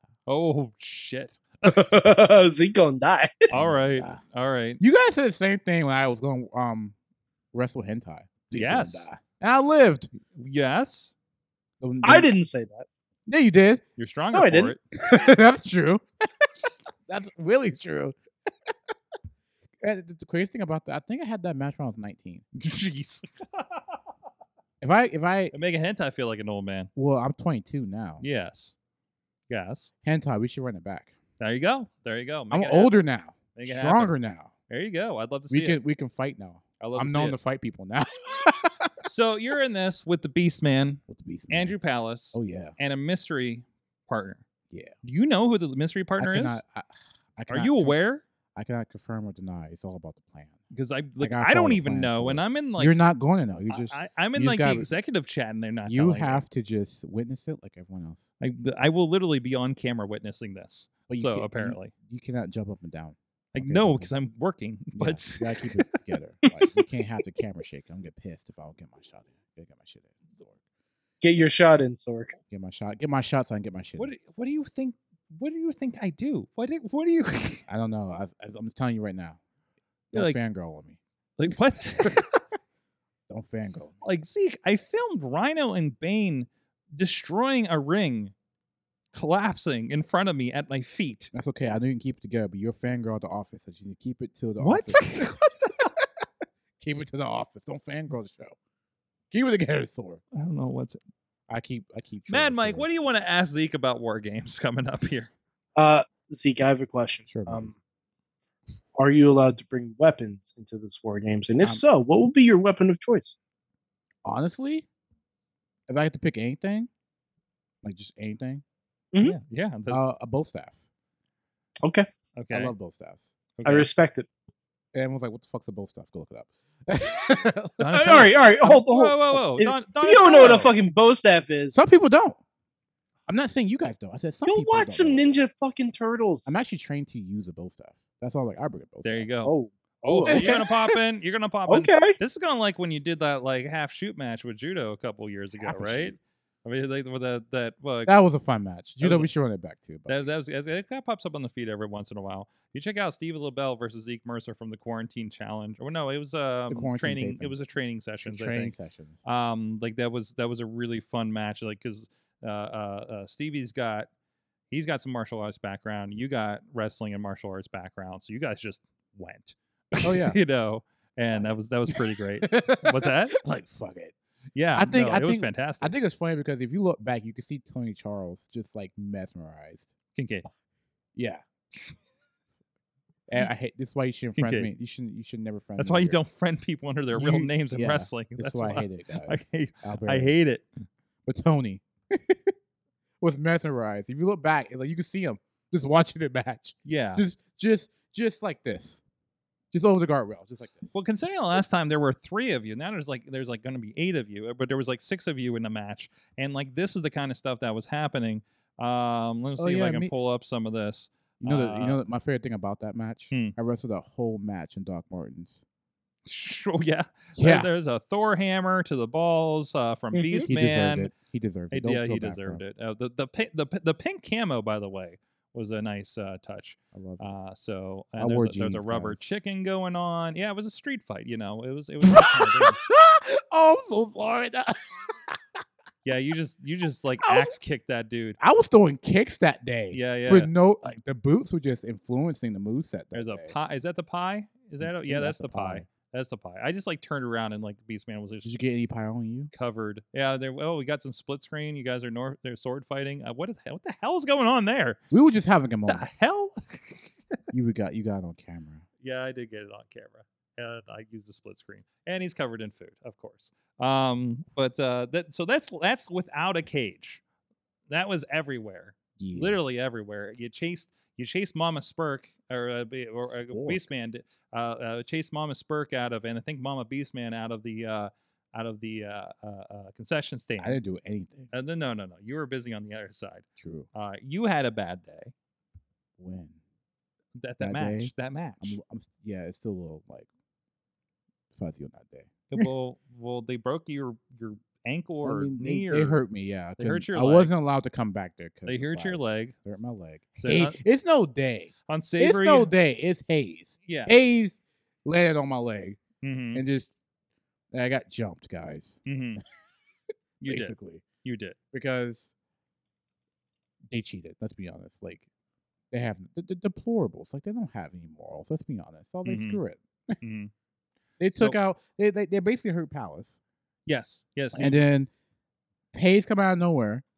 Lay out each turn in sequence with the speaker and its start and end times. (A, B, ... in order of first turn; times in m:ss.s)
0:00.3-0:01.9 A
0:01.6-0:03.5 B
0:03.5-0:04.8 A
0:03.5-0:04.2 C
0:04.8-0:06.9 C
0:07.5-0:10.1 C
0:08.5-0:09.1 A
0:10.3-0:11.1 A
0:11.8-0:12.3 C
0:12.0-0:12.9 B
0:13.3-0:13.8 C
0:14.0-0:14.8 A
0:14.3-0:14.7 B
0:15.0-0:18.1 C
0:19.8-0:22.4 C
0:22.6-0:24.0 A
0:24.8-0:25.5 C
0:25.5-0:26.9 A
0:27.0-0:28.2 C
0:28.2-0:28.7 A
0:29.5-0:29.9 A
0:30.0-0:31.1 C
0:31.4-0:33.0 A
0:32.5-0:34.5 C
0:33.6-0:34.1 A
0:34.7-0:35.8 A
0:35.5-0:38.9 C
0:36.8-0:37.4 A
0:39.0-0:44.4 A
0:41.1-0:41.8 C
0:42.3-0:42.8 C
0:45.0-0:46.6 A
0:46.2-0:48.0 C
0:47.5-0:48.2 A
0:48.6-0:50.6 C
0:50.7-0:53.0 A
0:51.2-0:54.9 C
0:53.7-0:56.4 A
0:55.8-0:58.3 C
0:58.4-1:01.9 A
1:01.1-1:04.1 C
1:03.5-1:05.9 A
1:05.0-1:10.6 C
1:11.2-1:12.4 B
1:12.5-1:14.1 C
1:14.0-1:17.7 A
1:17.7-1:19.4 C
1:20.1-1:21.0 C
1:20.1-1:20.4 A
1:21.4-1:22.4 A
1:22.0-1:22.3 C
1:23.3-1:24.0 C
1:24.0-1:28.3 A
1:29.1-1:31.3 A
1:31.3-1:35.7 C
1:34.6-1:35.8 A
1:36.8-1:38.6 C
1:39.3-1:40.2 C
1:40.3-1:41.0 A
1:41.5-1:42.9 C
1:42.3-1:45.3 A
1:45.8-1:47.7 B
1:47.3-1:47.7 C
1:49.0-1:53.4 B
1:54.2-1:54.9 C
1:55.9-1:56.9 C
1:57.8-1:58.6 C
1:59.2-2:00.0 A
1:59.9-2:00.8 C
2:02.4-2:02.7 A
2:02.5-2:03.3 C
2:03.6-2:03.9 A
2:03.6-2:04.3 B
2:04.9-2:08.3 C
2:07.8-2:10.7 A
2:07.9-2:11.8 B
2:11.7-2:12.4 C
2:13.3-2:15.3 C
2:14.4-2:16.5 B
2:16.4-2:19.3 C
2:19.0-2:28.1 A
2:19.4-2:20.6 B
2:20.3-2:20.7 C
2:21.7-2:22.2 B
2:25.6-2:26.2 C
2:28.0-2:30.3 C
2:29.0-2:29.3 A
2:30.1-2:44.1 A
2:36.7-2:37.6 C
2:38.2-2:39.2 C
2:44.7-2:53.4 A
2:50.0-2:50.4 C
2:51.3-2:54.1 C
2:54.6-2:55.9 A
2:54.7-2:59.9 C
3:00.1-3:00.4 A
3:01.1-3:01.4 C
3:03.3-3:06.2 C
3:04.4-3:04.7 A
3:05.8-3:10.7 A
3:07.1-3:10.4 C
3:11.3-3:12.5 C
3:13.2-3:19.0 C
3:16.8-3:17.2 A
3:19.7-3:21.0 C
3:20.9-3:32.0 A
3:29.6-3:30.1 C
3:31.4-3:35.6 C
3:33.3-3:33.6 A
3:36.3-3:41.1 A
3:37.4-3:37.7 C
3:40.1-3:40.5 B
3:40.4-3:42.6 C
3:41.7-3:52.8 A
3:46.9-3:47.3 C
3:48.2-3:49.2 C
3:52.0-3:55.4 C
3:56.0-3:58.4 A
3:57.2-3:57.6 C
3:58.4-4:03.6 C
3:59.9-4:00.5 A
4:03.1-4:08.6 A
4:04.8-4:05.9 C
4:08.4-4:09.5 C
4:09.5-4:15.0 A
4:15.1-4:16.0 C
4:15.9-4:17.4 A
4:17.5-4:18.8 C
4:19.0-4:27.2 A
4:27.9-4:40.8 A
4:29.2-4:29.6 C
4:33.2-4:33.9 C
4:40.6-4:41.5 C
4:41.5-4:45.3 A
4:43.6-4:43.9 C
4:46.2-4:46.6 C
4:47.4-4:48.8 A
4:47.6-4:50.3 C
4:51.5-4:52.7 C
4:52.5-4:56.2 A
4:55.2-5:06.0 C
4:56.8-4:57.5 A
4:58.7-4:59.6 A
5:00.4-5:00.8 A
5:01.9-5:02.7 A
5:03.9-5:04.4 A
5:06.2-5:06.6 A
5:06.5-5:06.9 C
5:07.7-5:09.0 C
5:09.0-5:09.4 A
5:10.4-5:11.6 A
5:10.5-5:11.0 C
5:11.7-5:12.3 C
5:13.9-5:15.2 C
5:15.9-5:20.2 C
5:19.2-5:19.6 A
5:20.2-5:20.5 A
5:21.2-5:23.4 C
5:23.9-5:24.8 A
5:24.5-5:25.1 C
5:25.9-5:27.0 C